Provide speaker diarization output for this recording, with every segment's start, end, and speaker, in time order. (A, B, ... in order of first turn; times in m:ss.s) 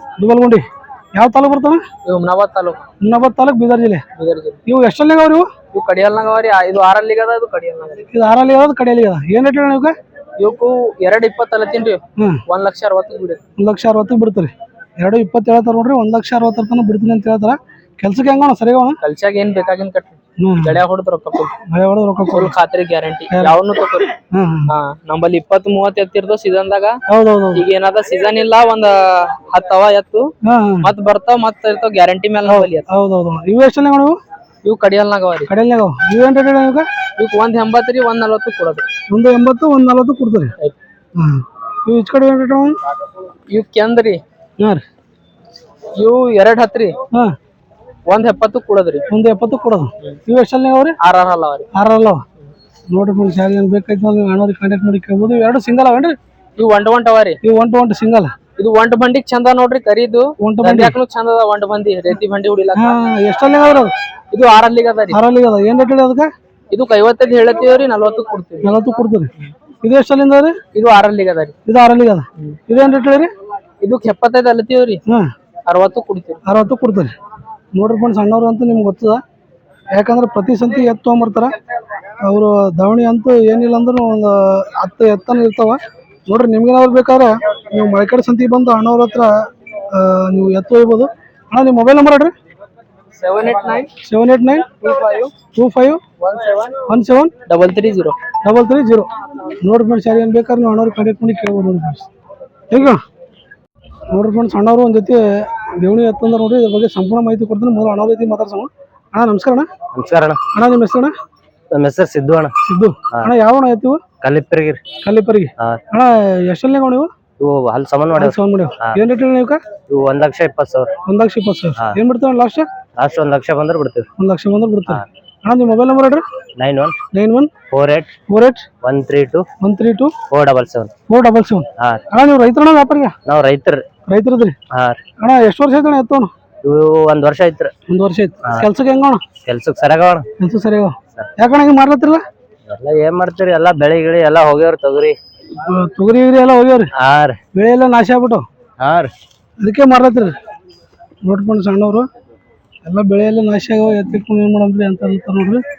0:00.2-0:01.8 A
0:02.0-0:02.8 B
0:03.0-0:04.0 A
0:04.2-0:04.6 B
0:04.7-0:05.5 A
0:05.7-0:08.0 B
0:08.1-0:10.0 A
0:10.4-0:13.4 B
0:13.6-0:19.0 A
0:19.0-0:21.5 B
0:20.4-0:20.8 A
0:21.7-0:22.5 A
0:22.3-0:24.1 B
0:24.3-0:24.7 A
0:24.7-0:27.0 B
0:27.1-0:27.6 A
0:27.5-0:30.3 B
0:30.4-0:30.9 A
0:30.8-0:32.9 B
0:32.4-0:34.2 A
0:34.6-0:35.5 B
0:35.5-0:36.9 A
0:37.2-0:38.8 B
0:39.1-0:40.5 A
0:41.2-0:42.8 A
0:43.5-0:44.2 B
0:46.0-0:47.0 B
0:48.1-0:49.0 B
0:49.1-0:50.9 A
0:51.0-0:51.7 B
0:51.7-0:52.2 A
0:52.9-0:56.2 A
0:56.6-0:57.4 B
0:57.4-0:58.3 A
0:58.6-1:03.0 B
1:00.4-1:00.9 A
1:02.8-1:03.9 A
1:04.3-1:05.2 B
1:05.1-1:06.3 A
1:06.7-1:08.7 B
1:08.6-1:10.6 A
1:10.7-1:11.5 B
1:11.6-1:13.3 A
1:13.8-1:15.0 B
1:15.1-1:15.3 A
1:15.7-1:16.4 B
1:16.4-1:17.1 A
1:17.7-1:19.2 A
1:19.9-1:21.5 A
1:22.2-1:32.3 A
1:33.2-1:33.9 B
1:34.0-1:34.7 A
1:34.8-1:35.3 B
1:35.5-1:36.0 A
1:36.2-1:36.8 B
1:36.9-1:37.3 A
1:37.5-1:38.2 B
1:38.4-1:39.1 A
1:39.6-1:42.1 A
1:42.7-1:43.0 A
1:44.1-1:49.7 A
1:49.9-1:50.4 C
1:50.5-1:51.1 A
1:51.7-1:52.5 C
1:52.6-1:54.0 A
1:54.2-1:54.8 C
1:55.0-1:57.1 A
1:57.4-1:59.0 C
1:58.2-1:59.6 A
1:59.9-2:00.9 C
2:01.1-2:02.7 A
2:03.0-2:04.1 C
2:04.2-2:06.2 A
2:06.6-2:06.9 C
2:07.1-2:07.5 A
2:07.7-2:08.1 C
2:08.3-2:08.7 A
2:08.8-2:09.4 C
2:09.6-2:10.1 A
2:10.3-2:10.9 C
2:11.1-2:13.2 A
2:13.2-2:13.8 C
2:14.1-2:14.6 A
2:14.7-2:15.0 C
2:15.2-2:16.3 A
2:16.6-2:17.7 C
2:17.9-2:19.2 A
2:19.4-2:20.2 C
2:20.4-2:22.2 A
2:22.7-2:25.1 C
2:25.6-2:26.9 A
2:27.0-2:27.4 C
2:27.5-2:28.4 A
2:28.8-2:29.1 C
2:29.6-2:30.3 A
2:31.2-2:32.0 A
2:32.8-2:35.6 A